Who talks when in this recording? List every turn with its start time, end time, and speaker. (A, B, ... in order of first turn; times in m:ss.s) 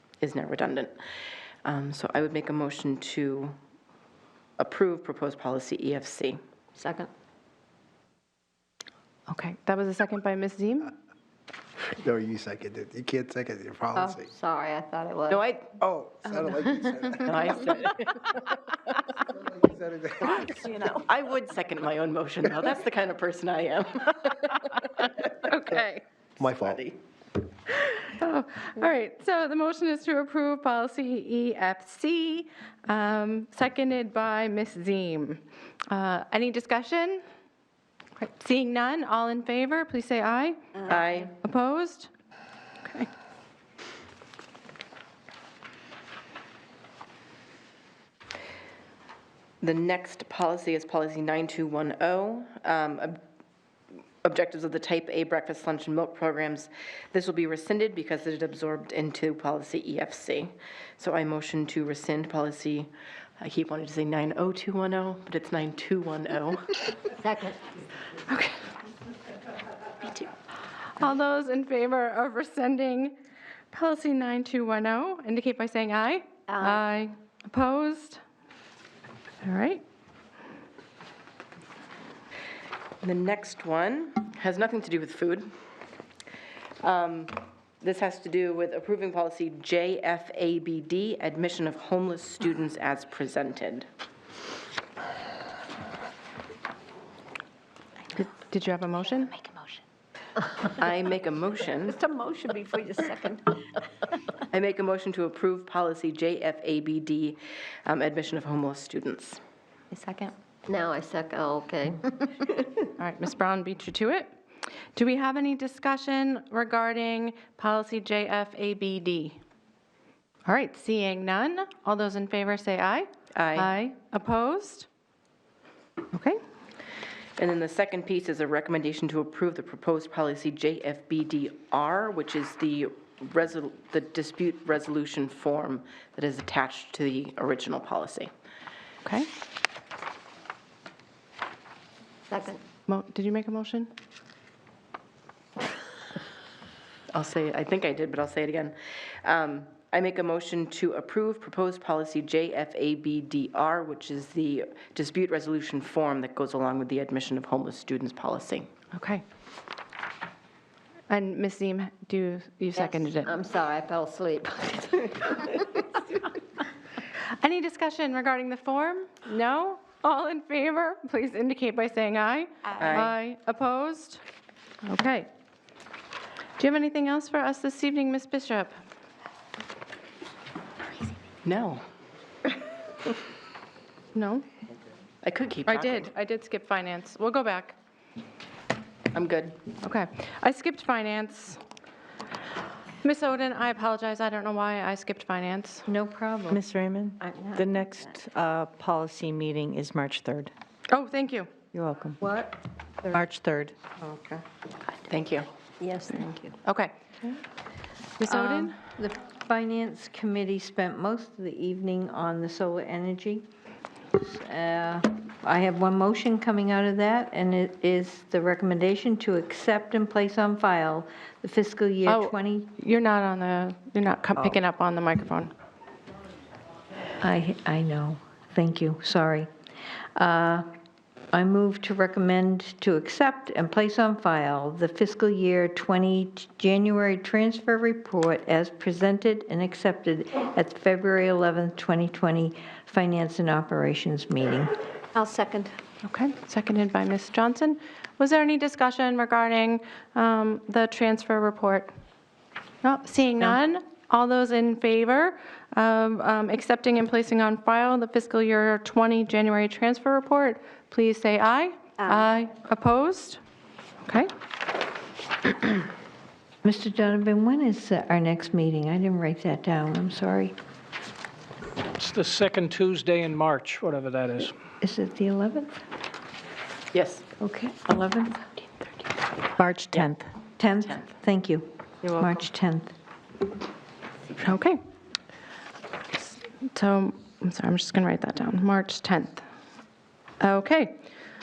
0:00.2-0:01.0 A
0:01.6-0:03.6 A
0:04.6-0:06.4 A
0:06.8-0:07.1 B
0:09.3-0:10.9 C
0:12.0-0:14.3 D
0:14.0-0:15.4 B
0:15.3-0:15.8 A
0:15.8-0:17.6 D
0:16.3-0:18.7 A
0:19.3-0:20.6 D
0:20.4-0:25.2 A
0:25.3-0:26.0 C
0:26.4-0:26.8 D
0:26.4-0:27.0 A
0:27.7-0:37.2 C
0:38.2-0:42.1 C
0:40.9-0:41.3 A
0:49.6-0:53.2 A
0:54.2-1:06.8 A
1:07.2-1:07.6 B
1:08.3-1:08.6 C
1:11.0-1:13.1 C
1:13.7-1:18.2 C
1:16.5-1:16.8 B
1:19.4-1:19.8 C
1:23.0-1:25.5 A
1:26.8-1:33.9 A
1:38.1-1:39.7 C
1:40.6-1:42.0 A
1:41.9-1:43.7 B
1:44.5-1:49.4 A
1:49.9-1:50.3 C
1:50.7-1:52.9 B
1:53.0-1:54.3 C
1:55.0-1:59.4 C
2:00.4-2:04.9 C
2:03.3-2:03.7 A
2:06.1-2:06.4 C
2:07.4-2:18.3 A
2:22.3-2:22.6 B
2:22.9-2:23.9 C
2:27.1-2:38.7 A
2:38.9-2:39.2 C
2:41.1-2:43.3 C
2:42.7-2:46.2 B
2:47.4-2:54.2 C
2:52.8-2:53.2 A
2:54.8-2:55.3 C
2:56.6-2:58.7 C
3:01.4-3:01.8 A
3:04.1-3:04.4 C
3:05.2-3:06.1 A
3:05.7-3:07.7 C
3:09.1-3:09.6 A
3:09.8-3:11.6 C
3:13.0-3:15.8 C
3:15.9-3:16.6 E
3:16.5-3:20.5 F
3:17.2-3:18.2 B
3:20.9-3:21.5 C
3:21.7-3:22.2 F
3:22.2-3:22.5 E
3:23.1-3:23.8 F
3:24.0-3:24.4 E
3:25.1-3:25.5 A
3:25.8-3:26.5 B
3:26.1-3:26.9 C
3:28.2-3:28.7 C
3:28.2-3:33.4 E
3:34.1-3:42.7 E
3:42.0-3:45.5 C
3:47.2-3:49.5 E
3:50.2-3:50.6 E
3:51.3-4:04.7 E
4:05.1-4:05.8 B
4:06.0-4:11.9 C
4:12.8-4:23.4 C
4:26.6-4:30.5 E
4:32.0-4:34.5 G
4:34.8-4:35.7 E
4:36.9-4:37.2 A
4:37.4-4:38.4 E
4:39.6-4:40.2 F
4:40.6-4:42.9 E
4:44.4-4:44.8 C
4:46.7-4:49.4 C
4:50.4-4:51.0 C